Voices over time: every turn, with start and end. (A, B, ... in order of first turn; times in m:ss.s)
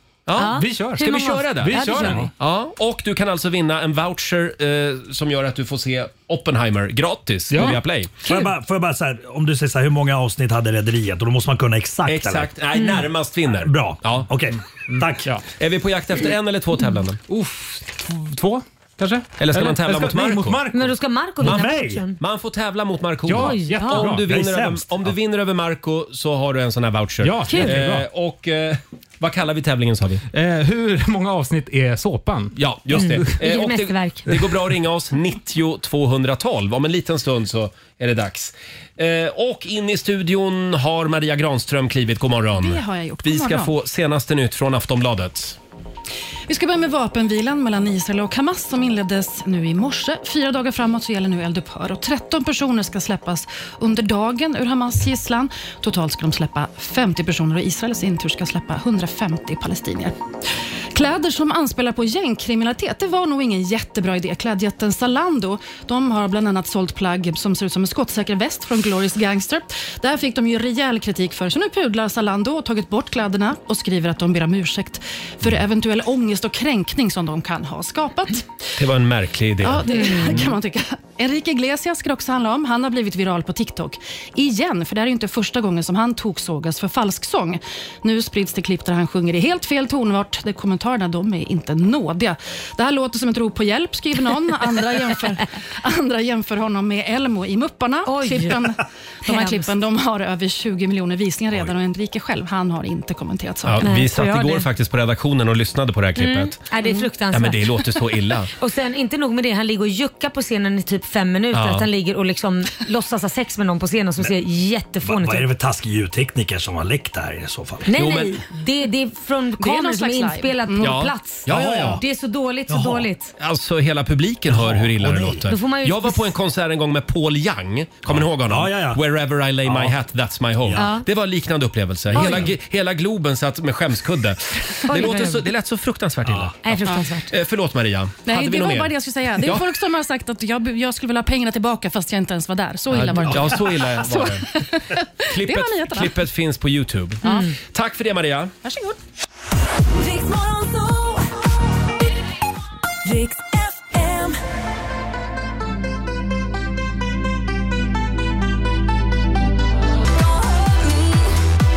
0:00.3-0:08.2 A
0:00.4-0:02.3 B
0:00.5-0:01.0 C
0:01.6-0:02.3 C
0:07.5-0:07.8 C
0:08.2-0:12.5 D
0:12.1-0:14.3 A
0:13.6-0:15.3 D
0:14.9-0:15.4 C
0:15.5-0:17.2 A
0:17.3-0:20.9 C
0:19.4-0:20.6 A
0:20.7-0:22.2 B
0:21.4-0:22.0 D
0:21.4-0:30.2 A
0:23.3-0:24.3 C
0:23.3-0:24.1 B
0:24.2-0:25.1 D
0:27.2-0:28.1 C
0:27.5-0:27.8 B
0:30.3-0:32.6 C
0:32.6-0:45.6 A
0:32.9-0:34.4 B
0:42.6-0:43.8 E
0:46.5-1:00.2 E
1:00.9-1:18.5 E
1:18.8-1:20.2 A
1:19.6-1:43.9 E
1:20.0-1:20.4 B
1:38.1-1:38.6 B
1:39.2-1:39.7 B
1:43.6-1:46.6 A
1:43.8-1:44.7 B
1:46.2-1:47.8 B
1:47.3-1:48.5 A
1:48.5-1:55.5 B
1:51.5-1:51.9 A
1:55.0-1:57.9 D
1:57.9-2:03.3 B
1:59.6-2:01.0 E
2:00.8-2:02.0 A
2:01.5-2:02.0 D
2:02.7-2:03.1 D
2:03.4-2:19.7 A
2:04.5-2:05.5 D
2:05.5-2:06.3 B
2:08.1-2:09.0 D
2:09.7-2:10.0 D
2:10.8-2:11.0 B
2:12.1-2:12.5 B
2:14.9-2:15.5 B
2:16.3-2:16.5 D
2:16.6-2:17.3 B
2:18.2-2:26.2 E
2:22.9-2:24.5 A
2:25.3-2:28.5 A
2:27.2-2:27.5 E
2:27.2-2:27.5 B
2:28.6-2:29.0 E
2:30.0-2:31.2 F
2:33.2-2:34.3 F
2:40.6-2:41.1 F